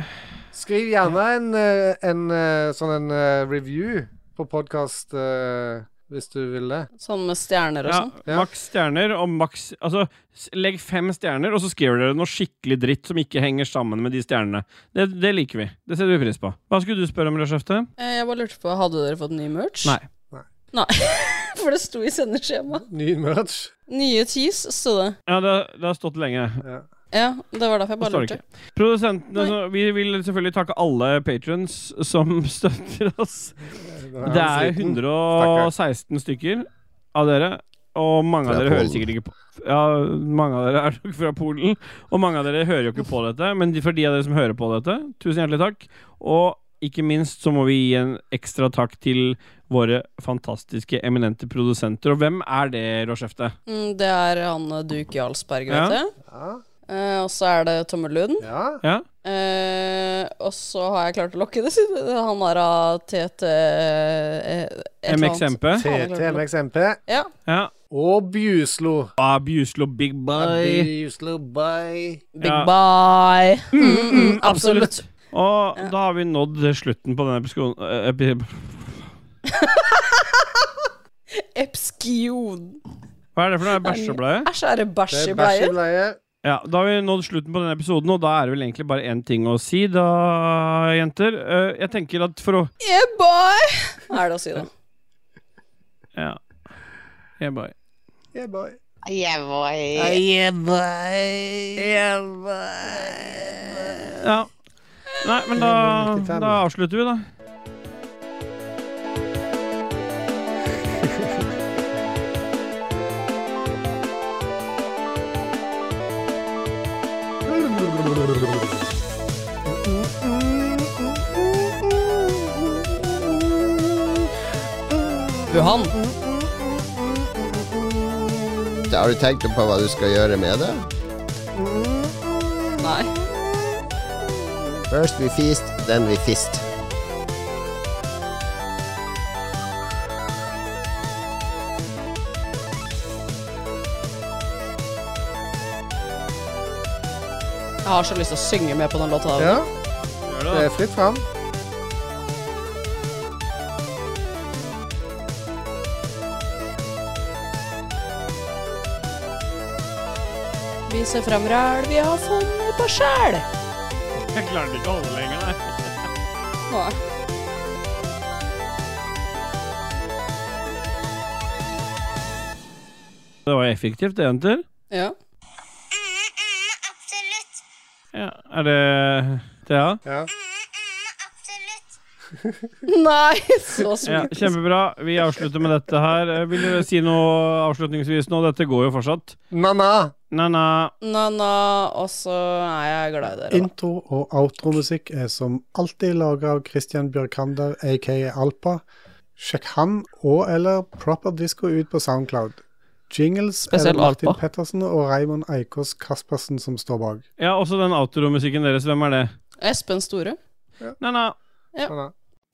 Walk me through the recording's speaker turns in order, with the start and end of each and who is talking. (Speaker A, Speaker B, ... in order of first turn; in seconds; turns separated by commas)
Speaker A: 0.5-6.9, Speaker B: 7.0-8.1, Speaker C: 7.9-17.9, Speaker B: 18.0-20.0, Speaker B: 20.7-22.9, Speaker A: 22.7-23.7, Speaker B: 23.9-25.1, Speaker C: 25.3-26.6, Speaker A: 26.6-26.9, Speaker B: 27.1-28.4, Speaker C: 28.0-33.5, Speaker A: 33.7-35.7, Speaker C: 34.2-53.5, Speaker D: 38.5-39.1, Speaker B: 53.7-56.1, Speaker C: 55.7-56.0, Speaker A: 56.3-56.6, Speaker B: 56.9-58.5, Speaker A: 58.4-58.8, Speaker B: 59.2-66.4, Speaker C: 65.1-65.8, Speaker A: 65.8-67.0, Speaker A: 67.9-69.1, Speaker C: 69.2-70.9, Speaker A: 70.4-72.3, Speaker B: 72.4-75.0, Speaker C: 72.4-72.7, Speaker C: 73.7-79.0, Speaker B: 79.5-80.4, Speaker B: 81.4-82.8, Speaker C: 83.4-84.5, Speaker B: 83.7-85.8, Speaker A: 85.1-86.2, Speaker C: 86.4-92.7, Speaker B: 92.8-94.7, Speaker C: 97.4-97.7, Speaker A: 98.3-98.8, Speaker A: 99.9-104.2, Speaker C: 104.1-104.5, Speaker C: 105.2-107.2, Speaker A: 105.5-106.6, Speaker A: 111.0-111.4, Speaker A: 117.6-118.4, Speaker A: 119.7-124.2, Speaker A: 124.9-128.8, Speaker B: 125.5-126.0, Speaker D: 128.9-130.9, Speaker A: 131.6-132.9, Speaker B: 132.8-133.1, Speaker D: 134.9-136.7, Speaker B: 147.8-149.6, Speaker A: 149.4-149.7, Speaker C: 150.3-150.7, Speaker A: 150.5-151.2, Speaker B: 160.9-163.5, Speaker C: 164.3-165.7, Speaker B: 166.7-167.0, Speaker C: 173.5-174.6, Speaker C: 178.1-180.0, Speaker A: 182.4-182.7, Speaker B: 182.9-184.4, Speaker C: 184.1-189.4, Speaker A: 189.5-190.1, Speaker C: 190.3-190.9, Speaker B: 191.0-193.7, Speaker A: 193.4-198.8, Speaker A: 199.4-207.2, Speaker B: 203.7-204.4, Speaker C: 207.4-209.3, Speaker B: 209.6-210.4, Speaker C: 211.0-211.3, Speaker A: 211.9-212.1